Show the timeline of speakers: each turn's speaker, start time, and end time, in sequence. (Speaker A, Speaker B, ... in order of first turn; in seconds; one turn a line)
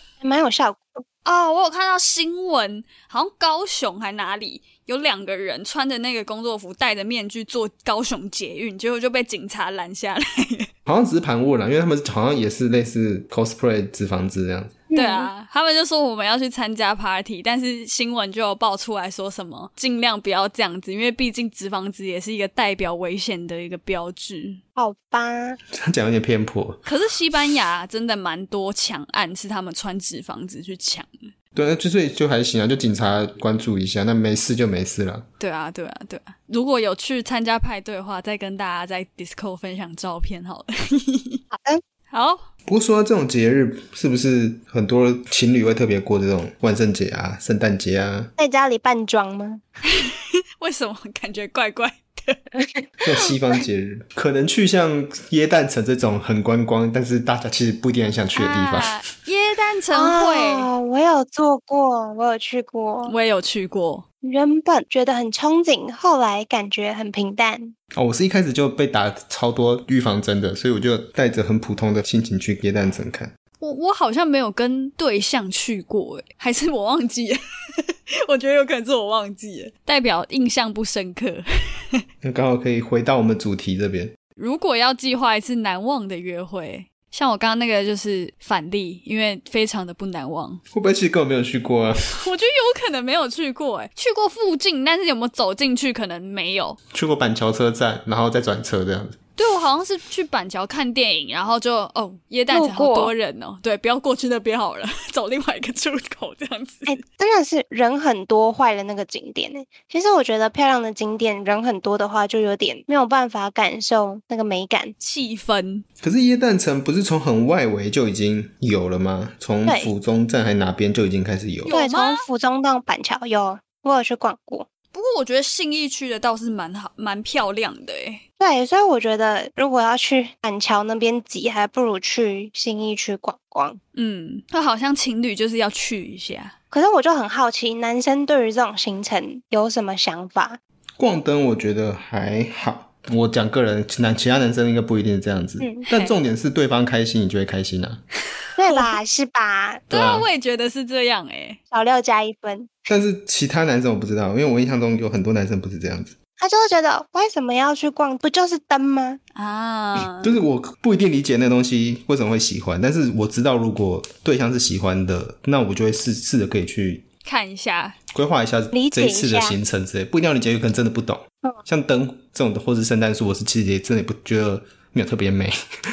Speaker A: 0.2-1.0
Speaker B: 1.2-10.7
Speaker C: 10.8-14.8
Speaker A: 14.9-15.3
Speaker B: 14.9-24.6
Speaker A: 24.8-25.6
Speaker C: 25.7-26.8
Speaker B: 26.9-31.1
Speaker C: 31.5-35.2
Speaker B: 35.4-41.4
Speaker A: 41.5-41.8
Speaker B: 42.1-42.5
Speaker C: 42.7-48.3
Speaker A: 48.4-49.6
Speaker B: 49.9-52.4
Speaker A: 52.6-53.1
Speaker C: 53.0-58.9
Speaker B: 58.3-60.7
Speaker A: 59.9-63.1
Speaker B: 63.0-64.0
Speaker A: 64.2-67.7
Speaker C: 67.9-73.3
Speaker B: 73.6-82.0
Speaker C: 82.2-84.1
Speaker B: 84.4-90.6
Speaker C: 90.7-92.0
Speaker B: 92.2-96.8
Speaker C: 96.9-99.2
Speaker B: 99.4-107.0
Speaker A: 102.5-103.1
Speaker A: 106.9-114.9
Speaker B: 115.0-115.8
Speaker C: 116.0-121.7
Speaker A: 119.6-119.9
Speaker B: 121.6-122.2
Speaker A: 121.7-124.7
Speaker B: 124.9-128.2
Speaker A: 128.4-133.8
Speaker B: 133.9-136.5
Speaker A: 136.7-140.6
Speaker C: 141.0-148.0
Speaker A: 145.6-145.8
Speaker A: 148.6-149.9
Speaker B: 148.7-148.9
Speaker B: 149.9-151.6
Speaker C: 149.9-150.3
Speaker A: 151.7-152.9
Speaker C: 152.9-156.1
Speaker A: 156.4-159.2
Speaker B: 159.3-160.3
Speaker C: 160.2-167.0
Speaker B: 167.2-168.0
Speaker C: 168.1-175.6
Speaker A: 168.7-169.6